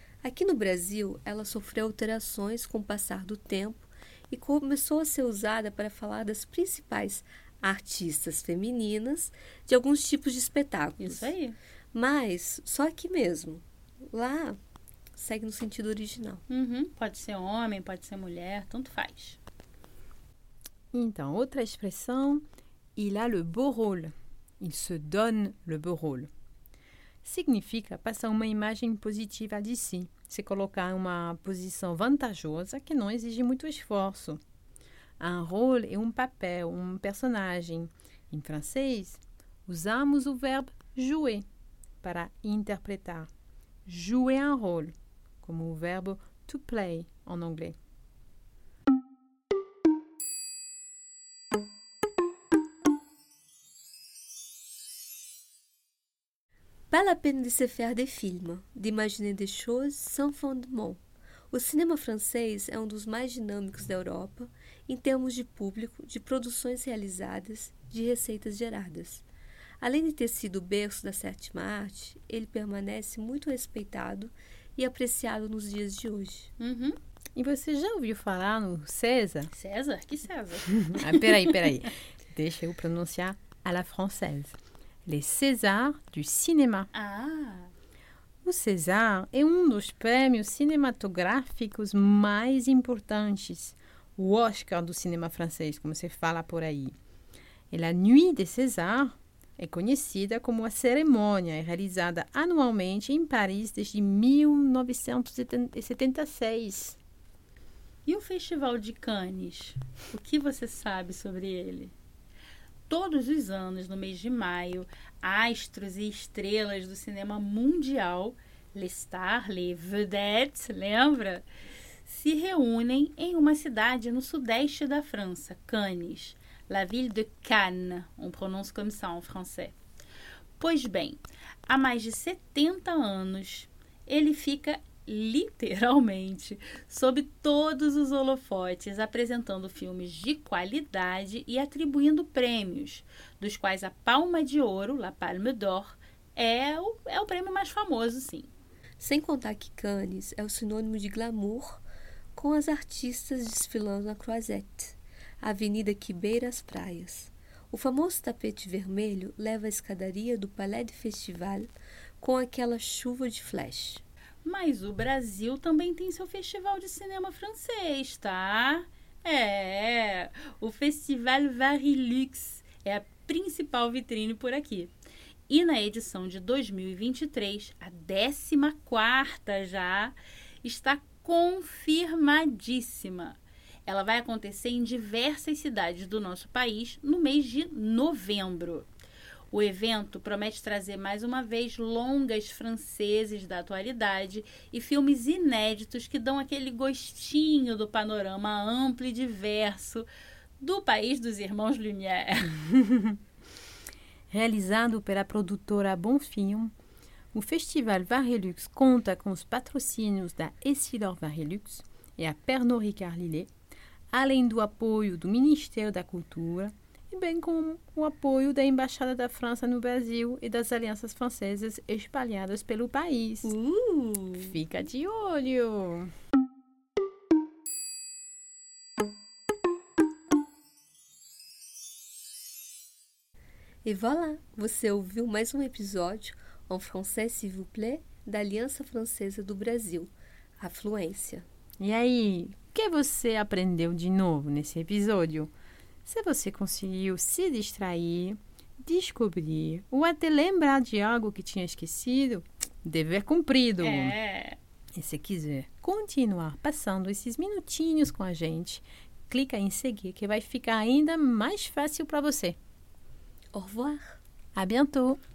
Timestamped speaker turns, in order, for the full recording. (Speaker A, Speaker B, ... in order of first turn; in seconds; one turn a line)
Speaker A: 0.2-11.3
Speaker B: 11.0-11.6
Speaker A: 11.9-14.6
Speaker A: 15.1-16.4
Speaker B: 16.5-19.4
Speaker C: 20.9-22.4
Speaker C: 22.9-26.3
Speaker C: 27.2-34.4
Speaker C: 35.2-41.4
Speaker C: 42.0-43.3
Speaker C: 43.9-47.8
Speaker A: 56.9-61.0
Speaker A: 61.5-69.2
Speaker A: 69.8-76.5
Speaker B: 76.6-77.0
Speaker C: 77.3-79.5
Speaker B: 79.5-81.6
Speaker C: 80.7-86.9
Speaker B: 86.9-87.7
Speaker C: 88.4-97.0
Speaker C: 97.7-107.0
Speaker B: 108.0-111.9
Speaker B: 112.9-121.5
Speaker B: 122.0-129.7
Speaker B: 130.6-148.5
Speaker A: 149.0-151.8
Speaker A: 152.3-161.7
Speaker A: 162.2-164.0
Speaker B: 164.4-174.9
Speaker B: 175.5-188.9
Speaker B: 189.5-200.1
Speaker B: 200.6-202.6
Speaker C: 202.7-203.2
Speaker C: 204.3-206.7
Speaker C: 207.3-213.5
Speaker C: 214.1-223.5
Speaker A: 223.4-224.6
Speaker C: 224.4-226.1
Speaker A: 233.8-241.5
Speaker C: 241.8-245.5
Speaker C: 246.1-254.2
Speaker B: 253.8-254.6
Speaker C: 254.9-262.6
Speaker A: 263.5-264.2
Speaker C: 264.5-265.2